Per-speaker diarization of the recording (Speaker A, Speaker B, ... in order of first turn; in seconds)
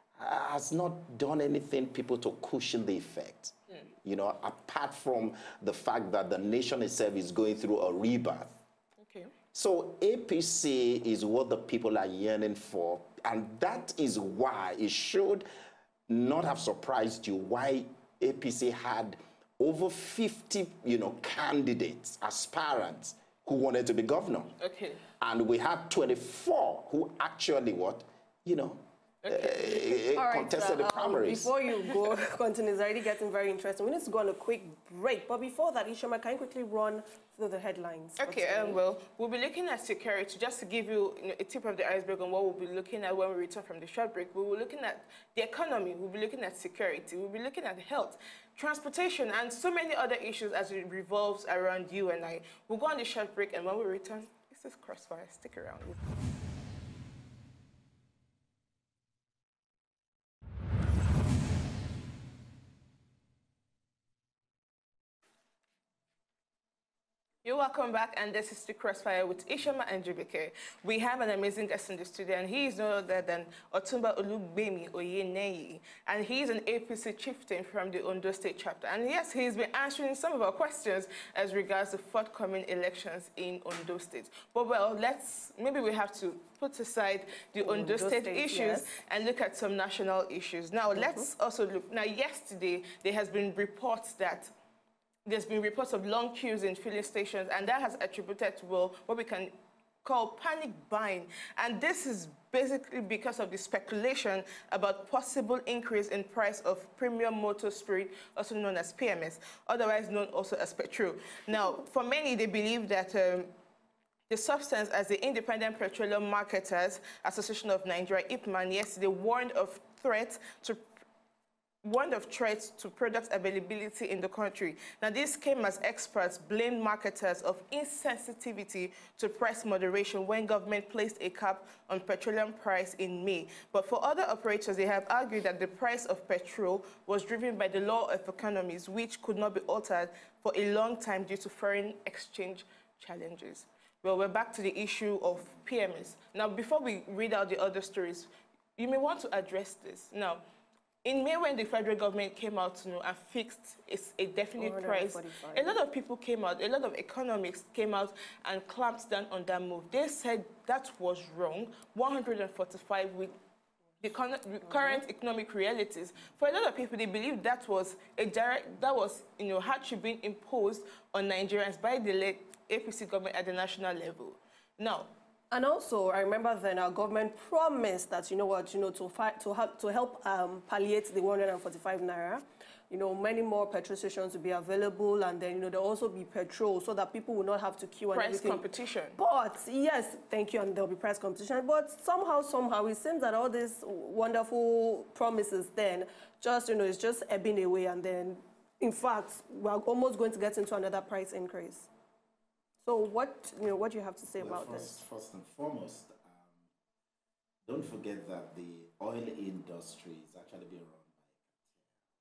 Speaker A: 0.2-8.6, 9.5-15.5, 16.1-24.6, 25.2-31.5, 204.4-206.4, 207.7-211.5
Speaker B: 9.0-9.3, 24.6-25.0, 29.2-30.0, 38.2-56.0, 67.4-94.5, 95.3-113.5, 114.3-120.8, 121.8-150.4, 151.0-163.3, 164.0-175.1, 188.1-189.2
Speaker C: 30.1-38.8, 87.6-88.9, 91.0-91.3, 154.6-155.8, 164.7-165.0, 175.5-188.6, 189.2-201.9, 202.8-205.0